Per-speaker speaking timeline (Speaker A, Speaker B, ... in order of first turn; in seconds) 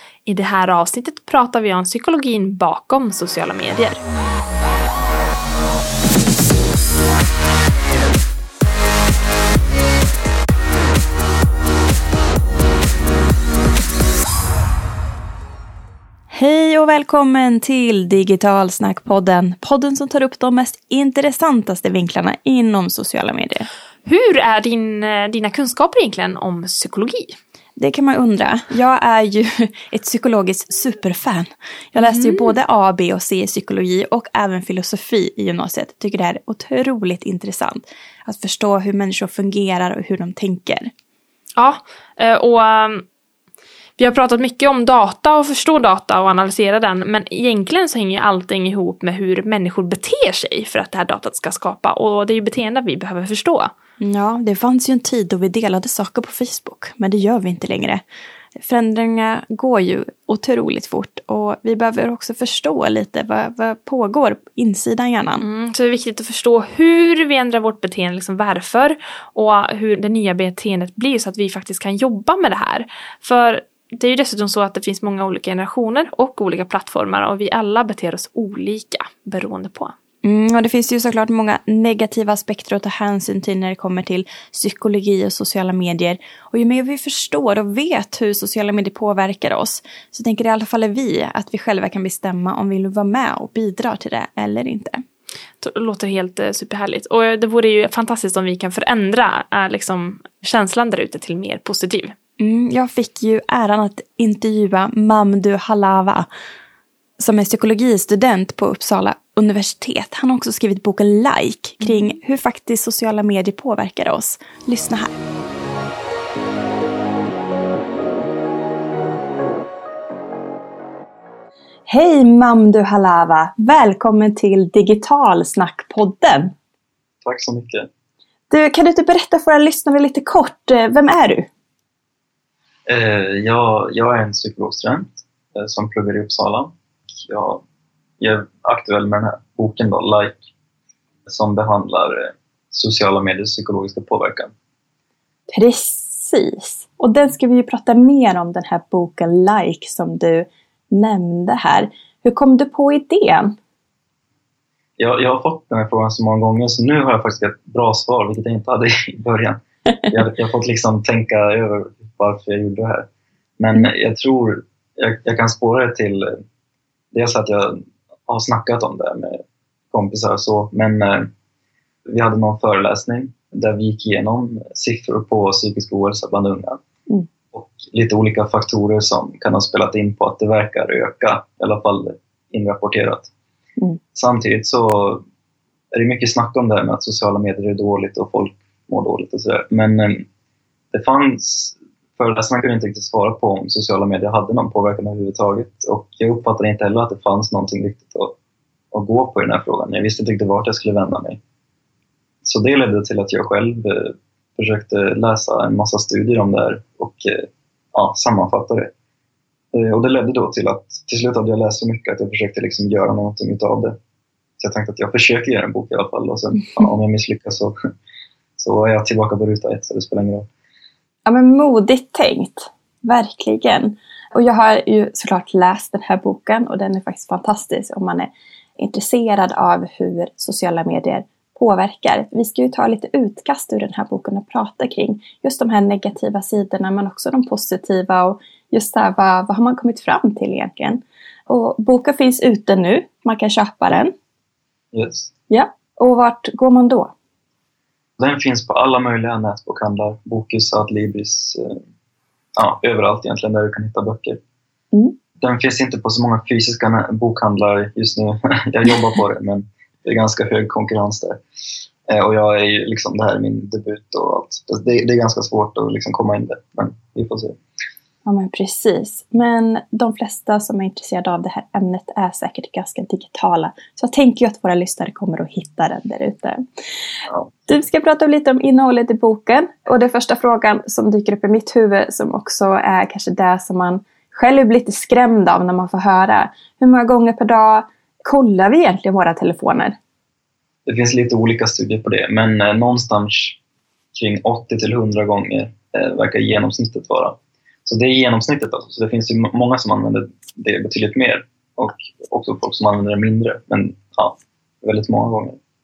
Speaker A: 0.3-4.0, 24.1-27.4, 32.0-32.5, 41.6-43.0, 44.0-53.7, 65.4-79.9, 95.6-102.1
Speaker B: 16.3-23.7, 27.8-40.9, 54.0-58.0, 58.6-65.4, 80.2-95.0, 102.4-106.3, 107.2-115.2, 121.9-126.5, 128.5-131.5, 145.5-153.6, 221.2-244.1, 245.5-247.1, 268.2-276.6, 277.6-289.9
Speaker C: 127.2-127.9, 132.9-137.6, 138.2-140.4, 141.2-144.5, 155.0-163.1, 163.6-166.3, 167.1-171.3, 172.1-176.8, 177.5-183.3, 184.1-185.2, 185.9-190.2, 190.9-198.3, 198.9-201.4, 202.4-208.9, 209.7-214.0, 214.6-217.7, 218.6-220.5, 244.9-245.3, 248.2-251.8, 252.6-254.4, 255.4-261.4, 262.1-267.6, 290.9-293.6, 294.1-305.6